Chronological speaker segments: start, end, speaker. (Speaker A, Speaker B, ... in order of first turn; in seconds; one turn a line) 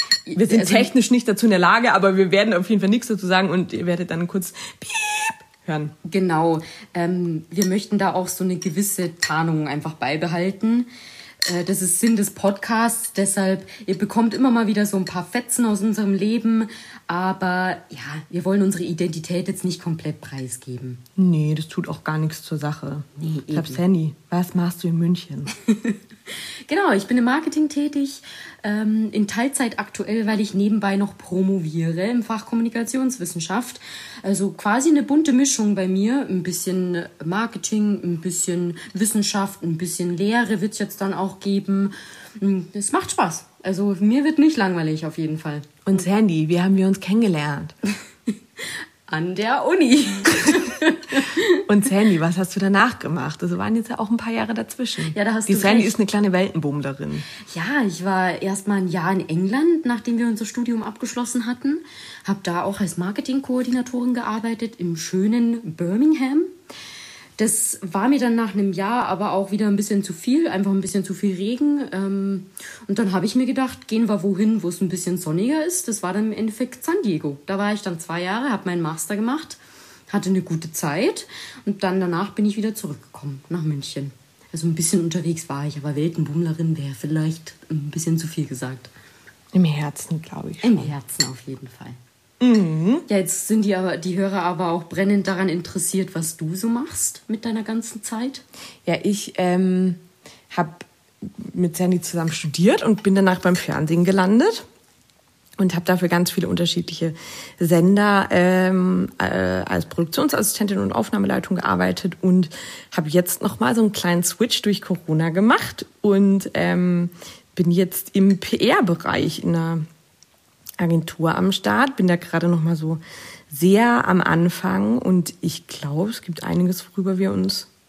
Speaker A: 0.3-0.9
Speaker B: 0.3-5.9
Speaker A: 6.0-10.9
Speaker A: 11.4-21.0
Speaker B: 21.1-25.5
Speaker A: 23.2-23.8
Speaker A: 25.6-45.9
Speaker B: 45.8-47.7
Speaker A: 48.6-51.6
Speaker B: 51.6-57.3
Speaker A: 55.1-56.0
Speaker A: 57.5-66.5
Speaker A: 67.4-79.6
Speaker A: 80.1-88.9
Speaker B: 89.5-90.9
Speaker A: 90.6-92.0
Speaker B: 92.4-93.0
Speaker A: 93.1-98.4
Speaker B: 98.8-104.6
Speaker B: 105.6-119.8
Speaker B: 120.8-127.7